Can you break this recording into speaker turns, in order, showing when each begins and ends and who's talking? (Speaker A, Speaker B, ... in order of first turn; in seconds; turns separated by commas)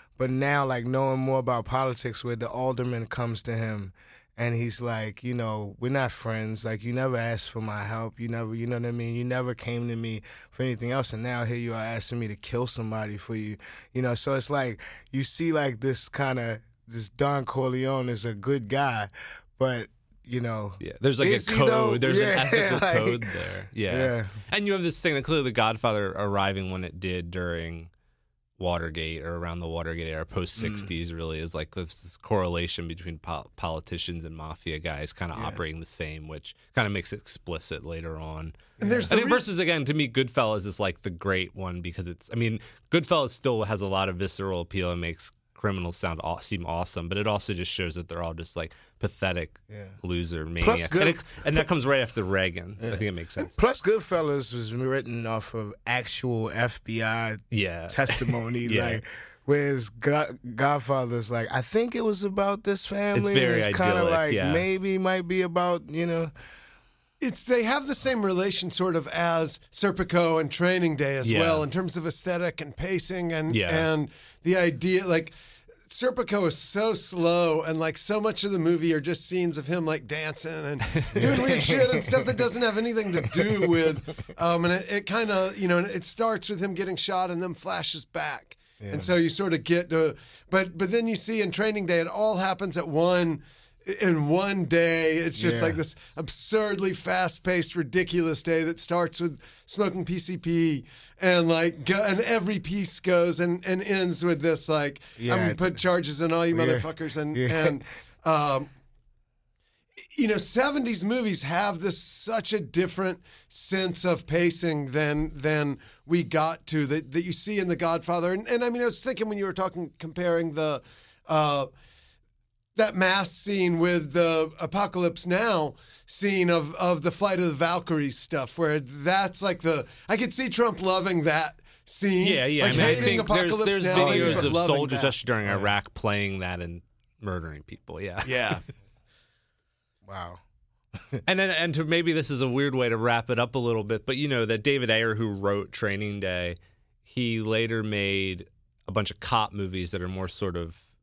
Speaker A: 0.2-23.3, Speaker B: 20.8-27.9, Speaker A: 23.9-24.4, Speaker B: 28.6-53.5, Speaker A: 30.6-30.9, Speaker A: 38.8-39.1, Speaker C: 38.8-39.5, Speaker A: 49.7-50.0, Speaker A: 50.6-51.6, Speaker A: 52.8-66.3, Speaker B: 57.5-59.0, Speaker B: 63.1-64.6, Speaker C: 67.2-75.3, Speaker B: 71.2-71.7, Speaker B: 73.5-73.9, Speaker C: 75.9-108.7, Speaker B: 81.0-81.4, Speaker A: 81.1-82.3, Speaker A: 88.8-89.1, Speaker A: 95.4-95.8, Speaker A: 105.2-105.8, Speaker A: 106.5-107.8, Speaker C: 110.1-121.7, Speaker C: 122.8-135.1, Speaker B: 132.2-138.6, Speaker A: 132.7-133.0, Speaker A: 133.9-134.5, Speaker A: 135.4-135.7, Speaker C: 138.2-138.6, Speaker A: 140.0-140.4, Speaker B: 141.2-150.8